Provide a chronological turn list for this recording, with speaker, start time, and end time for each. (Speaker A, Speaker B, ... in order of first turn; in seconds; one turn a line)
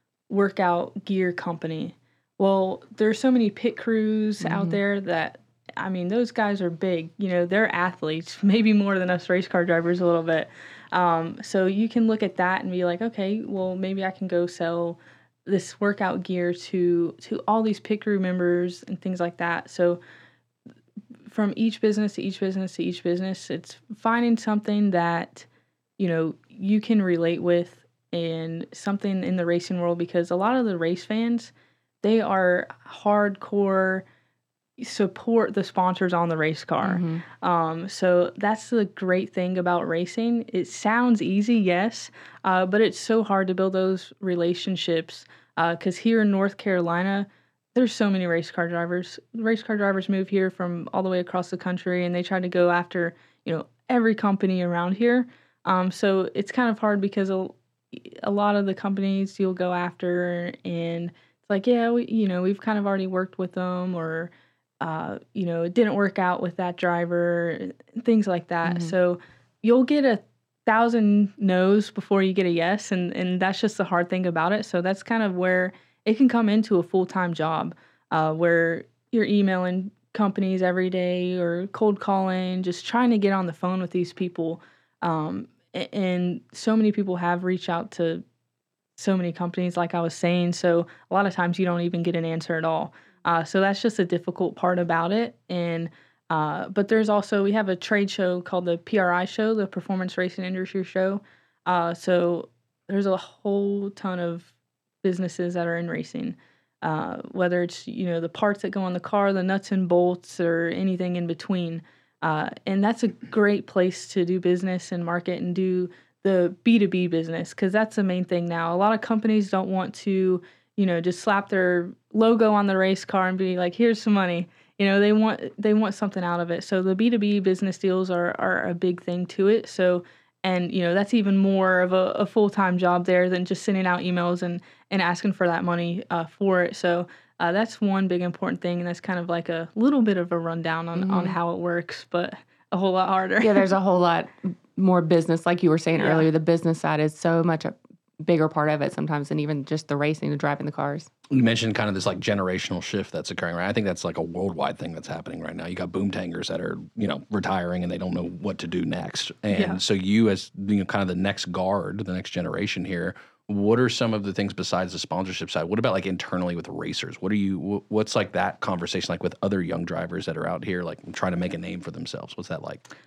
Speaker A: 0.3-20.0
Speaker B: 4.4-4.8
Speaker A: 21.3-25.5
Speaker A: 26.0-31.5
Speaker A: 32.0-34.0
Speaker A: 34.8-88.2
Speaker B: 36.8-37.2
Speaker B: 68.7-68.9
Speaker A: 89.0-104.5
Speaker A: 105.0-143.7
Speaker B: 141.0-141.4
Speaker B: 143.4-151.1
Speaker A: 146.0-146.3
Speaker C: 151.3-172.8
Speaker A: 159.5-159.8